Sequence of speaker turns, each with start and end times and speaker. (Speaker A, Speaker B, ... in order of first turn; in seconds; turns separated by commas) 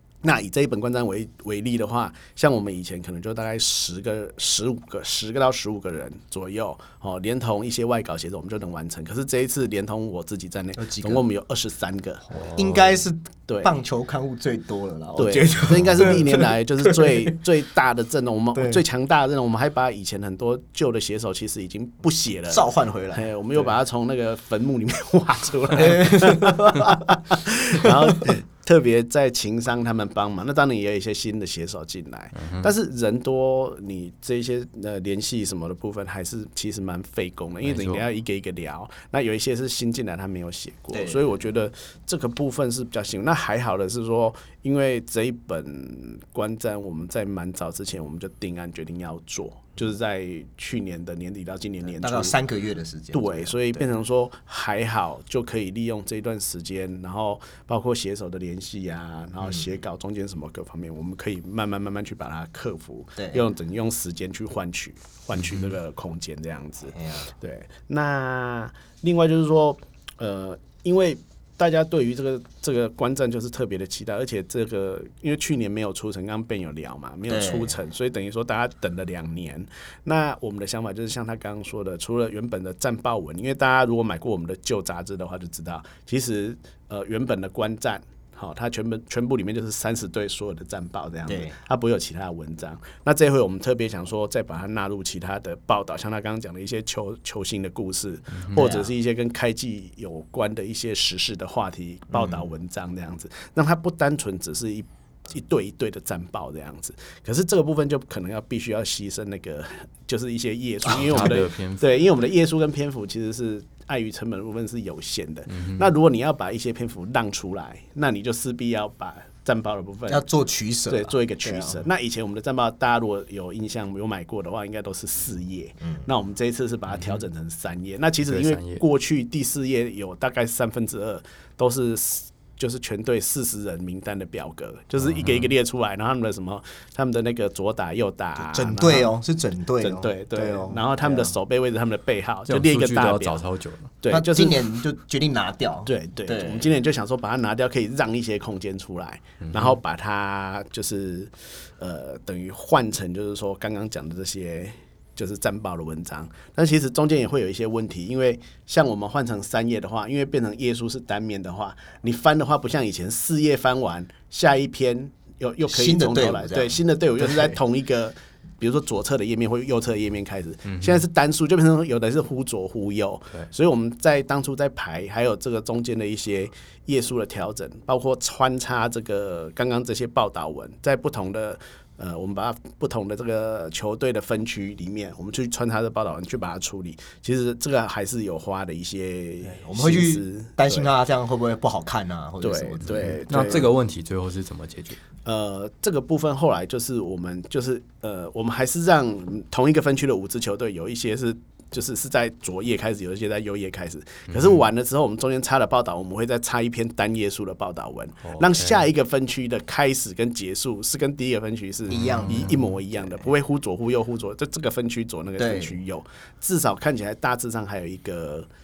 Speaker A: 0.2-12.3, Speaker B: 10.8-11.2, Speaker C: 12.3-13.0, Speaker B: 12.6-17.4, Speaker A: 15.2-52.4, Speaker C: 15.7-16.1, Speaker B: 18.5-18.8, Speaker B: 22.5-23.7, Speaker B: 25.8-27.0, Speaker B: 27.8-28.3, Speaker C: 32.4-32.7, Speaker C: 37.6-38.0, Speaker B: 40.9-41.2, Speaker B: 52.0-53.8, Speaker A: 53.1-120.2, Speaker B: 63.2-63.5, Speaker C: 65.4-65.7, Speaker B: 66.9-67.3, Speaker B: 77.3-77.8, Speaker B: 91.3-91.6, Speaker C: 98.3-98.7, Speaker B: 98.5-98.9, Speaker C: 110.9-111.9, Speaker C: 115.5-115.9, Speaker B: 120.1-121.8, Speaker A: 120.9-139.1, Speaker C: 126.9-127.2, Speaker C: 128.3-128.8, Speaker C: 135.0-135.5, Speaker B: 138.4-141.3, Speaker A: 139.8-143.4, Speaker C: 142.5-143.9, Speaker A: 144.0-144.8, Speaker B: 144.1-146.7, Speaker A: 145.9-190.9, Speaker C: 149.4-149.8, Speaker B: 165.6-167.6, Speaker C: 170.7-171.1, Speaker B: 189.4-193.6, Speaker A: 192.4-193.7, Speaker C: 193.3-195.0, Speaker A: 195.2-218.5, Speaker C: 204.3-204.6, Speaker C: 208.2-208.8, Speaker B: 211.9-213.3, Speaker C: 212.0-212.6, Speaker B: 215.4-215.8